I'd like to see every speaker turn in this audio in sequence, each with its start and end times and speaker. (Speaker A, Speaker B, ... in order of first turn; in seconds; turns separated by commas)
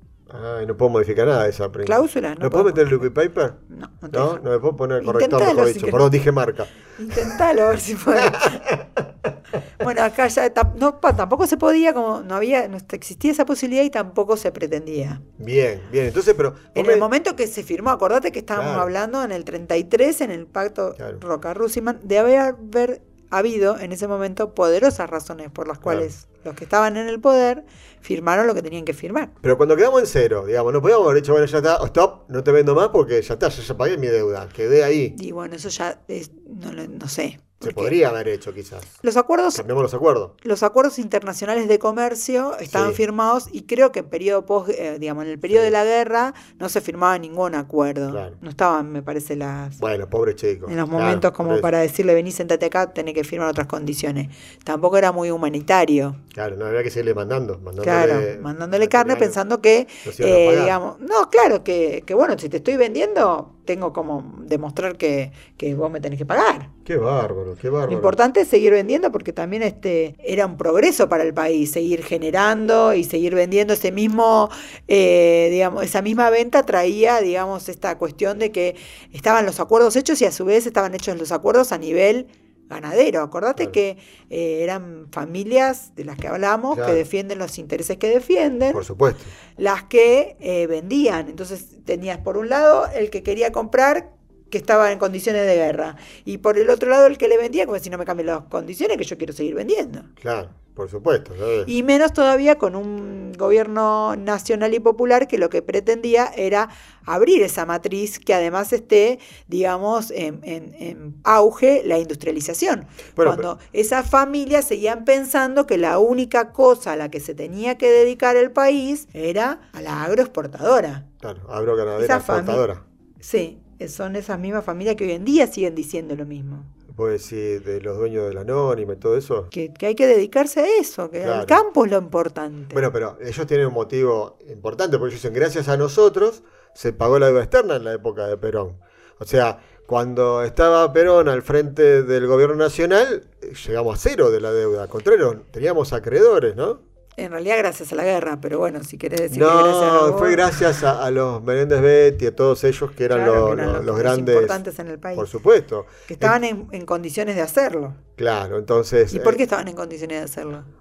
Speaker A: 0.3-3.6, Speaker B: 1.8-3.1, Speaker B: 3.7-4.4, Speaker A: 4.1-7.4, Speaker B: 5.0-6.1, Speaker B: 7.0-8.7, Speaker A: 8.2-9.1, Speaker B: 9.8-15.2, Speaker A: 15.4-17.1, Speaker B: 16.8-29.3, Speaker A: 18.6-18.9, Speaker A: 29.4-35.2, Speaker B: 35.1-38.0, Speaker A: 37.6-39.0, Speaker B: 39.0-39.7, Speaker A: 39.5-40.3, Speaker B: 40.4-49.8, Speaker A: 42.7-43.0, Speaker A: 45.5-45.7, Speaker A: 48.1-48.4, Speaker A: 49.8-51.7, Speaker B: 50.7-56.2, Speaker A: 56.3-59.4, Speaker B: 57.8-66.7, Speaker A: 60.0-60.8, Speaker A: 66.8-68.2, Speaker B: 67.9-88.8, Speaker A: 86.7-87.0, Speaker A: 88.7-89.3, Speaker B: 89.6-100.1, Speaker A: 100.2-101.7, Speaker B: 101.7-121.1, Speaker A: 113.2-113.5, Speaker A: 121.2-122.8, Speaker B: 122.0-122.7, Speaker B: 123.2-126.7, Speaker A: 126.9-129.5, Speaker B: 129.5-132.8, Speaker A: 131.2-131.6, Speaker A: 132.7-146.8, Speaker B: 147.2-150.8, Speaker A: 149.3-154.6, Speaker B: 153.1-155.3, Speaker A: 155.2-156.4, Speaker B: 156.1-158.0, Speaker A: 158.2-159.4, Speaker B: 159.1-160.7